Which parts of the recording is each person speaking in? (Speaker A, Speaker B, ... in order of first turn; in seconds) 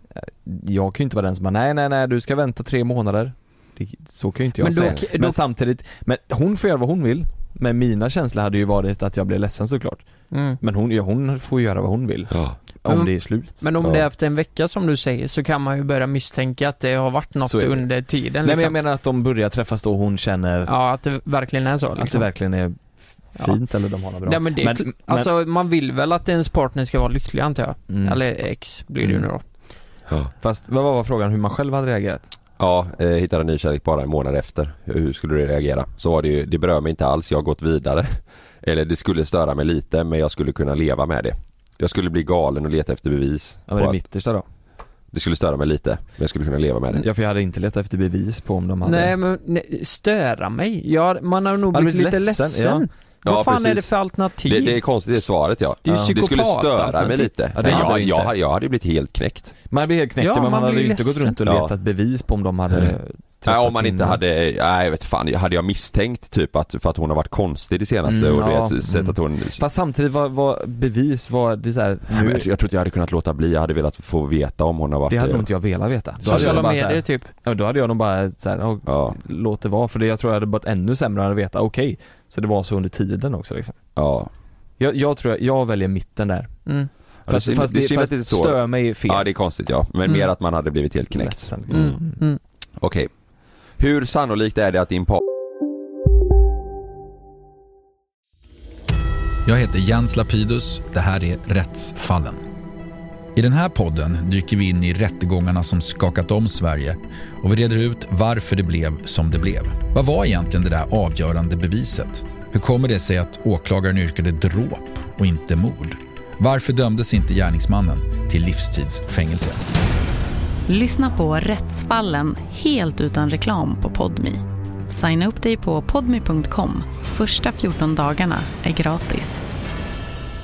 Speaker A: 0.1-10.0, 10.6-13.6, 17.4-17.9, 18.4-20.7, 21.9-25.3, 27.9-28.2, 30.4-32.3, 43.7-44.4, 47.0-49.1, 51.7-52.9, 57.5-58.3, 59.7-64.2, 68.0-72.5, 75.1-83.8, 84.8-86.5, 87.3-89.3, 91.1-92.2
Speaker B: 4.6-5.4, 10.3-10.6, 12.9-18.8, 20.7-22.3, 24.2-29.4, 48.8-54.8, 55.8-58.0, 60.2-61.4, 76.2-77.3, 91.7-92.4
Speaker C: 12.3-12.6, 13.8-14.1, 32.6-44.0, 45.1-47.0, 53.2-53.9, 54.4-59.5, 61.5-61.7, 63.4-69.6, 72.1-75.5, 76.2-76.6, 78.8-79.2, 84.0-84.3, 87.3-91.5, 92.8-93.1, 93.8-95.2
Speaker D: 99.4-102.4, 103.3-119.6
Speaker E: 120.7-129.4